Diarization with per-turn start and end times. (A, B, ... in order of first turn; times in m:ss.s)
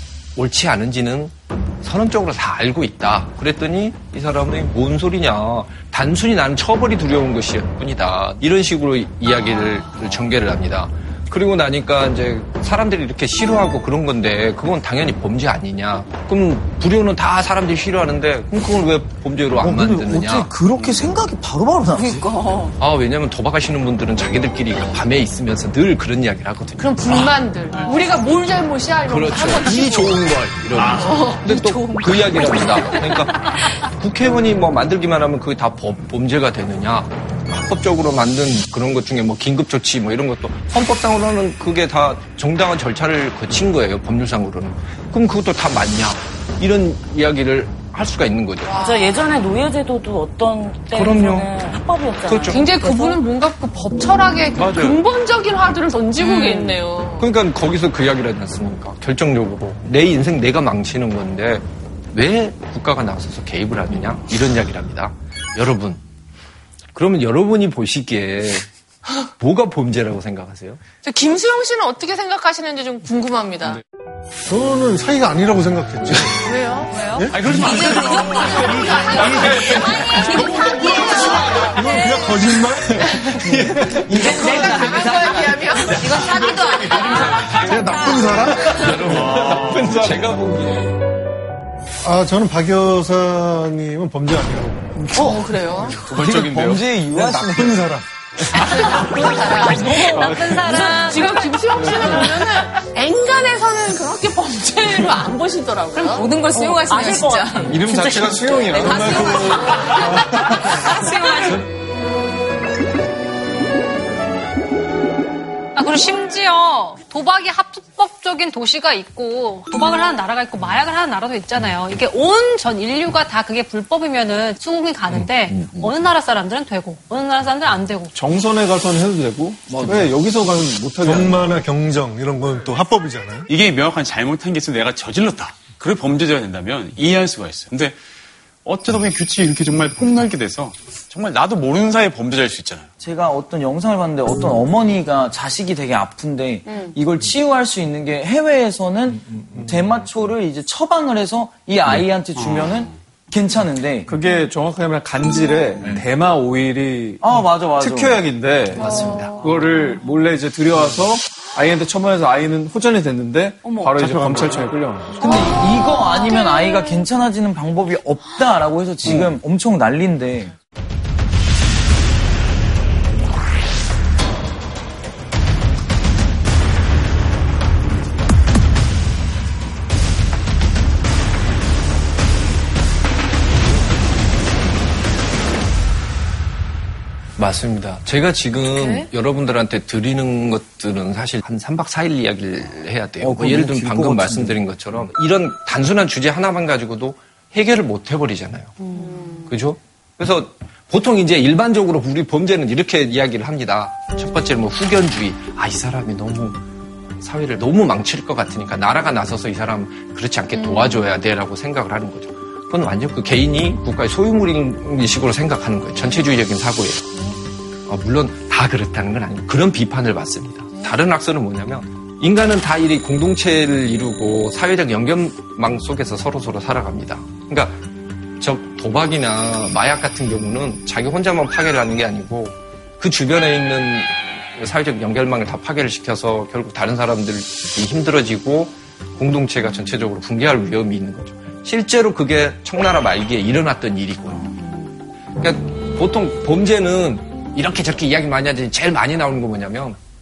0:00.4-0:20.6 A
0:19.6-0:22.3 B
0:22.0-0:22.8 C
0:22.8-0:27.3 A
0:26.8-0:30.3 D
0:29.1-0:48.7 A
0:30.8-0:31.0 E
0:30.8-0:32.2 D
0:31.5-0:32.9 C
0:48.7-0:49.1 D
0:48.7-0:53.2 F
0:50.9-0:52.7 A
0:52.3-0:57.3 D
0:54.6-0:55.0 A
0:56.3-1:06.0 A
1:06.9-1:08.7 A
1:09.4-1:10.8 A
1:11.0-1:13.8 D
1:14.5-1:16.5 G
1:16.4-1:17.3 D
1:16.9-1:17.3 H
1:17.3-1:19.9 E
1:17.5-1:22.5 C
1:18.3-1:21.9 D
1:20.4-1:24.2 G
1:23.0-1:23.4 D
1:23.8-1:26.2 B
1:24.1-1:26.2 D
1:24.4-1:28.5 C
1:26.2-1:29.6 G
1:28.6-1:30.9 A
1:28.8-1:30.2 E
1:32.0-1:35.1 G
1:35.1-1:36.0 D
1:35.2-1:38.0 B
1:36.0-1:36.9 I
1:37.1-1:38.0 G
1:38.5-1:46.3 D
1:39.6-1:41.3 C
1:39.9-1:40.7 I
1:42.0-1:42.2 C
1:46.0-1:47.7 C
1:46.5-1:49.5 F
1:47.6-1:50.7 I
1:48.8-1:49.9 C
1:48.8-1:50.1 D
1:50.0-1:51.7 H
1:55.8-2:08.1 H
2:05.1-2:05.9 A
2:08.1-2:11.6 I
2:09.7-2:10.1 A
2:11.0-2:13.5 G
2:13.5-2:18.0 E
2:18.6-2:22.9 E
2:23.0-2:34.1 B
2:31.9-2:32.9 E
2:34.1-2:45.2 I
2:37.2-2:38.3 B
2:38.8-2:39.4 A
2:44.0-2:44.7 E
2:44.1-2:44.4 A
2:45.2-2:50.5 B
2:49.0-2:49.4 A
3:07.4-3:18.8 A
3:13.2-3:14.6 B
3:19.5-3:26.6 A
3:27.2-3:37.1 A
3:37.9-3:47.8 A
3:48.4-4:04.6 A
4:05.4-4:10.0 A